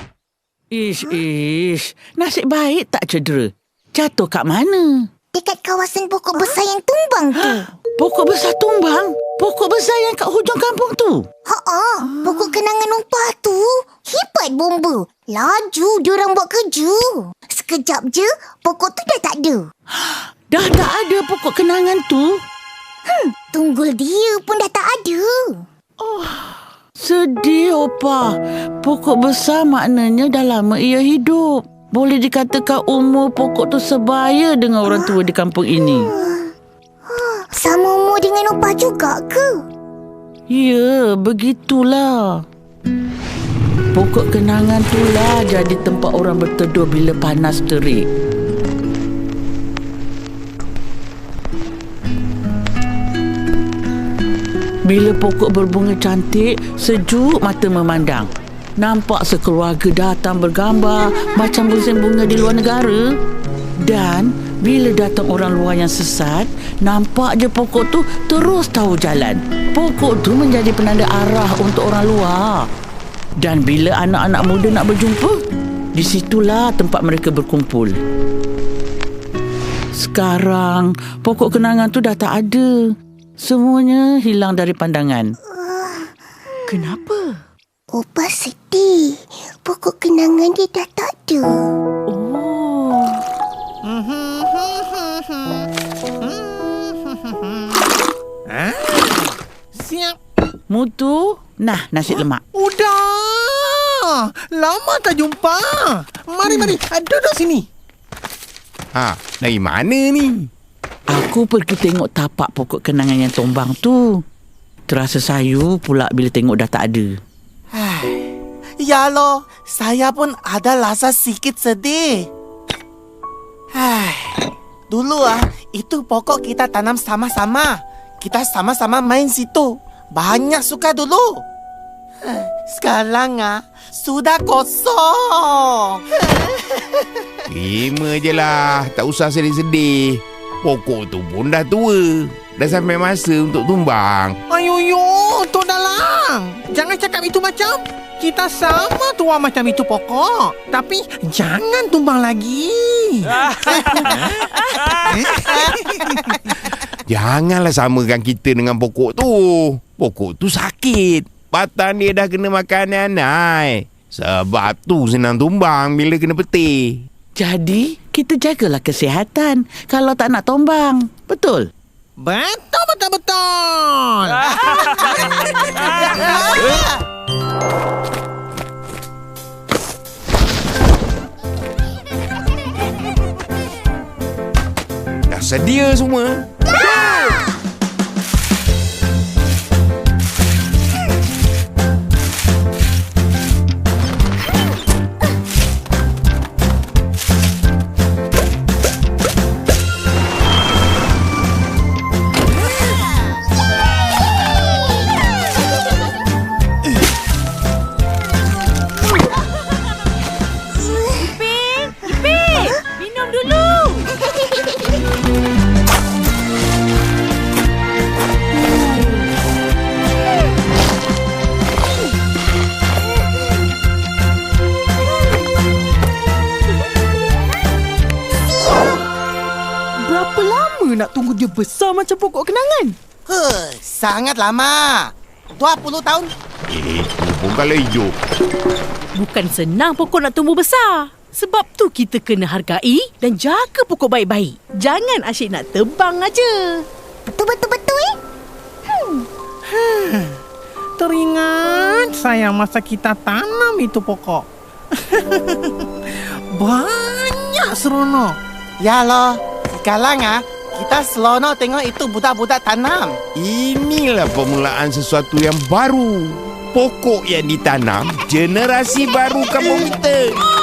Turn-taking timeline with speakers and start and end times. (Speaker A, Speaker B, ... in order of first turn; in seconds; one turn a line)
Speaker A: 0.7-5.1
Speaker B: 5.3-7.7
Speaker A: 8.0-11.2
Speaker B: 11.4-19.7
Speaker A: 20.0-22.4
Speaker B: 23.1-25.6
Speaker A: 27.0-36.1
Speaker B: 36.1-36.5
Speaker B: 37.0-39.6
Speaker A: 40.5-42.4
Speaker A: 43.9-48.0
Speaker A: 54.9-63.0
Speaker A: 63.8-72.7
Speaker A: 73.4-75.4
Speaker A: 75.9-78.0
Speaker A: 79.9-85.3
Speaker B: 85.5-87.0
Speaker C: 86.7-87.3
Speaker B: 87.9-91.7
Speaker C: 92.1-93.2
Speaker D: 93.8-95.6
Speaker D: 96.2-97.7
Speaker D: 98.5-100.2
Speaker A: 100.7-102.4
Speaker D: 102.5-107.6
Speaker E: 108.9-110.5
Speaker A: 111.1-114.2
Speaker A: 114.9-117.1
Speaker F: 117.7-118.2
Speaker F: 118.8-122.2
Speaker F: 123.8-124.3
Speaker F: 124.9-131.4
Speaker F: 132.3-135.9
Speaker E: 137.5-144.4
Speaker D: 144.5-154.3
Speaker D: 155.1-155.6
Speaker E: 157.1-167.0
Speaker A: 167.4-171.7
Speaker D: 172.2-174.8
Speaker E: 185.3-186.4
Speaker C: 210.9-214.1
Speaker G: 230.0-232.9
Speaker F: 233.3-235.0
Speaker F: 235.6-236.3
Speaker E: 236.7-238.1
Speaker C: 239.1-246.8
Speaker B: 247.3-248.2
Speaker B: 248.9-249.2
Speaker D: 249.8-250.2
Speaker D: 251.0-254.4
Speaker D: 256.5-258.4
Speaker F: 258.8-263.2
Speaker E: 263.4-270.4